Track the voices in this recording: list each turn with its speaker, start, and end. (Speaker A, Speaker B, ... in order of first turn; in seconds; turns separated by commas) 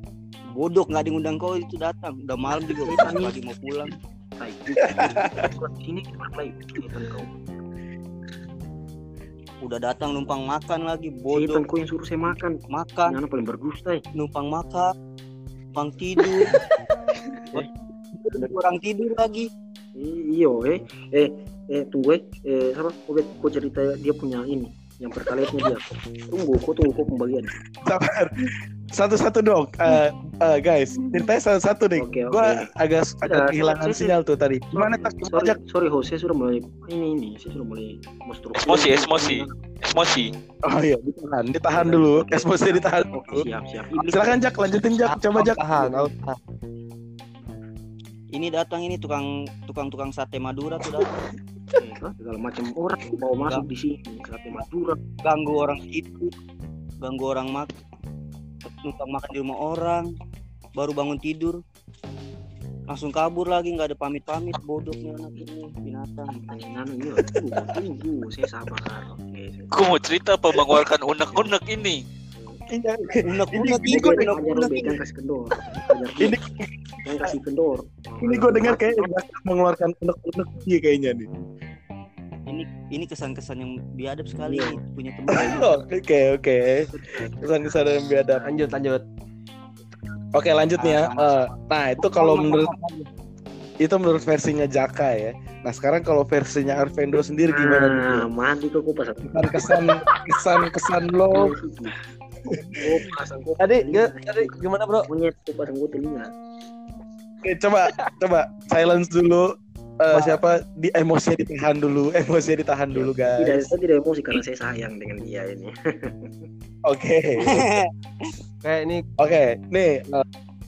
Speaker A: 0.5-3.9, Speaker B: 2.8-3.4, Speaker B: 3.9-7.3, Speaker C: 4.8-5.5, Speaker A: 9.6-11.7, Speaker B: 11.3-14.0, Speaker A: 12.3-13.2, Speaker A: 14.2-14.9, Speaker A: 15.7-16.6, Speaker B: 16.2-16.5, Speaker B: 17.4-17.7, Speaker A: 18.2-19.5, Speaker B: 20.0-27.5, Speaker C: 27.8-35.6, Speaker B: 30.9-31.3, Speaker B: 31.9-32.7, Speaker B: 33.2-34.1, Speaker B: 34.7-39.6, Speaker D: 38.5-40.3, Speaker C: 40.7-43.5, Speaker B: 41.7-44.4, Speaker C: 44.1-46.1, Speaker E: 45.0-46.4, Speaker A: 48.3-51.2, Speaker B: 51.8-55.0, Speaker A: 53.4-53.6, Speaker A: 55.2-56.3, Speaker A: 57.0-57.7, Speaker A: 58.6-60.1, Speaker A: 60.8-61.6, Speaker A: 62.9-66.4, Speaker B: 66.3-69.7, Speaker C: 67.3-67.7, Speaker D: 69.7-72.0, Speaker C: 72.7-74.3, Speaker A: 73.2-75.0, Speaker B: 73.6-76.4, Speaker C: 75.9-77.3, Speaker B: 77.0-79.1, Speaker C: 78.2-81.3, Speaker A: 82.5-85.8, Speaker B: 84.4-84.8, Speaker C: 85.3-88.5, Speaker B: 86.8-87.5, Speaker E: 88.4-89.0, Speaker C: 90.3-92.7, Speaker A: 90.8-91.2, Speaker A: 92.1-93.0, Speaker C: 93.8-98.3, Speaker B: 97.5-100.0, Speaker C: 99.2-101.5, Speaker B: 101.3-102.0, Speaker C: 102.5-102.9, Speaker B: 102.8-104.4, Speaker E: 103.6-105.1, Speaker A: 103.7-104.1, Speaker B: 105.1-106.3, Speaker C: 107.4-113.7, Speaker E: 110.1-110.4, Speaker B: 112.9-116.4, Speaker C: 116.8-117.7, Speaker A: 117.4-117.9, Speaker E: 118.6-119.0, Speaker C: 119.2-120.2